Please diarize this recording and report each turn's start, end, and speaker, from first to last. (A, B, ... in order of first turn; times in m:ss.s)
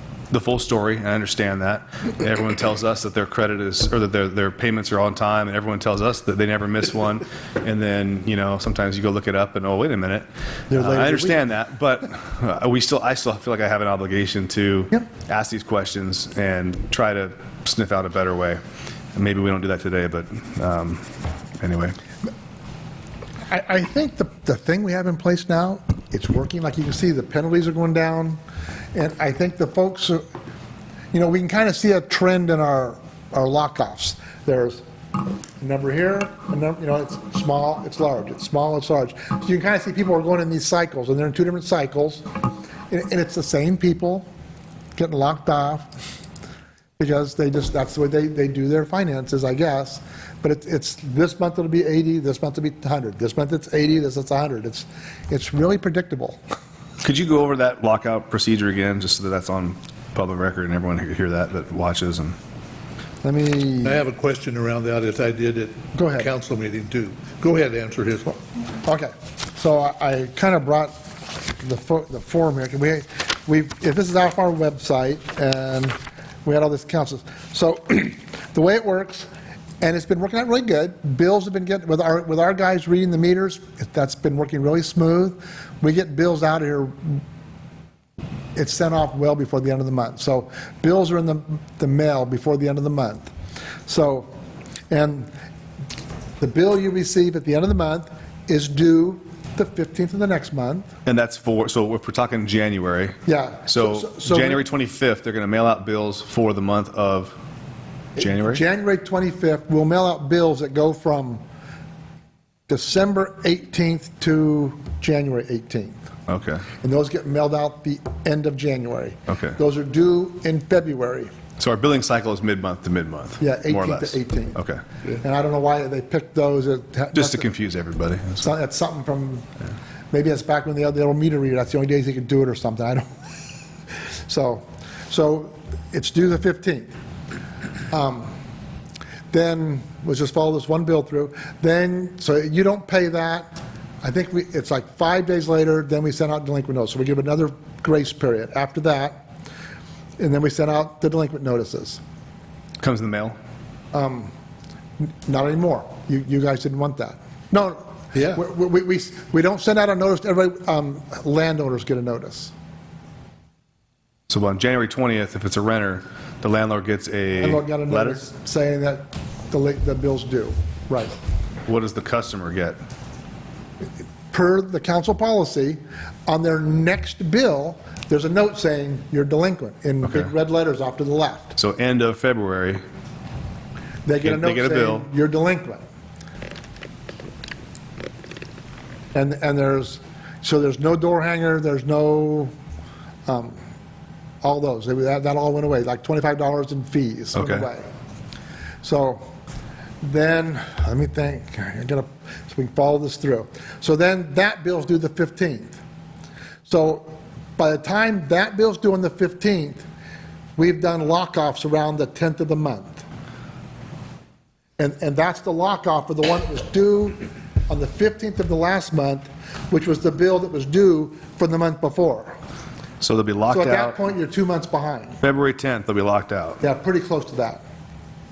0:00.3-0:18.6 A
0:10.7-0:11.4 B
0:19.2-0:21.1 A
0:21.6-0:22.0 A
0:23.5-0:28.4 B
0:28.9-0:30.2 B
0:31.1-0:34.8 B
0:35.6-0:42.2 B
0:42.9-0:44.3 B
0:45.0-0:45.9 B
0:47.0-0:56.4 B
0:57.0-1:02.4 A
1:03.2-1:04.0 B
1:03.8-1:08.4 C
1:05.9-1:06.3 B
1:08.8-1:19.3 B
1:19.8-1:27.2 B
1:28.6-1:33.3 B
1:33.9-1:34.3 B
1:34.9-1:35.3 B
1:36.4-1:40.9 B
1:41.0-1:47.4 A
1:43.3-1:44.6 B
1:48.2-1:48.6 A
1:48.2-1:51.4 B
1:52.7-1:56.0 B
1:56.3-1:56.7 A
1:56.8-2:01.3 B
1:59.3-1:59.6 A
2:01.6-2:04.8 A
2:03.4-2:04.6 B
2:05.2-2:07.4 B
2:07.2-2:08.5 A
2:08.4-2:09.4 B
2:10.1-2:13.0 B
2:14.3-2:16.9 B
2:17.9-2:18.4 B
2:19.3-2:29.2 B
2:30.2-2:32.0 B
2:32.8-2:33.4 A
2:33.9-2:34.3 B
2:35.0-2:42.5 B
2:44.3-2:48.2 A
2:47.4-2:51.1 B
2:51.7-2:52.8 A
2:54.3-3:01.6 B
3:00.0-3:00.3 A
3:01.6-3:02.8 A
3:04.1-3:05.8 B
3:04.2-3:05.1 A
3:09.1-3:12.5 B
3:13.3-3:13.6 B
3:14.4-3:17.8 B
3:17.4-3:17.7 A
3:18.8-3:19.2 B
3:20.0-3:25.8 B
3:26.7-3:29.8 B
3:30.6-3:33.0 B
3:34.8-3:42.4 B
3:43.0-3:44.0 A
3:43.5-3:45.2 B
3:45.2-3:46.6 A
3:46.6-3:47.6 B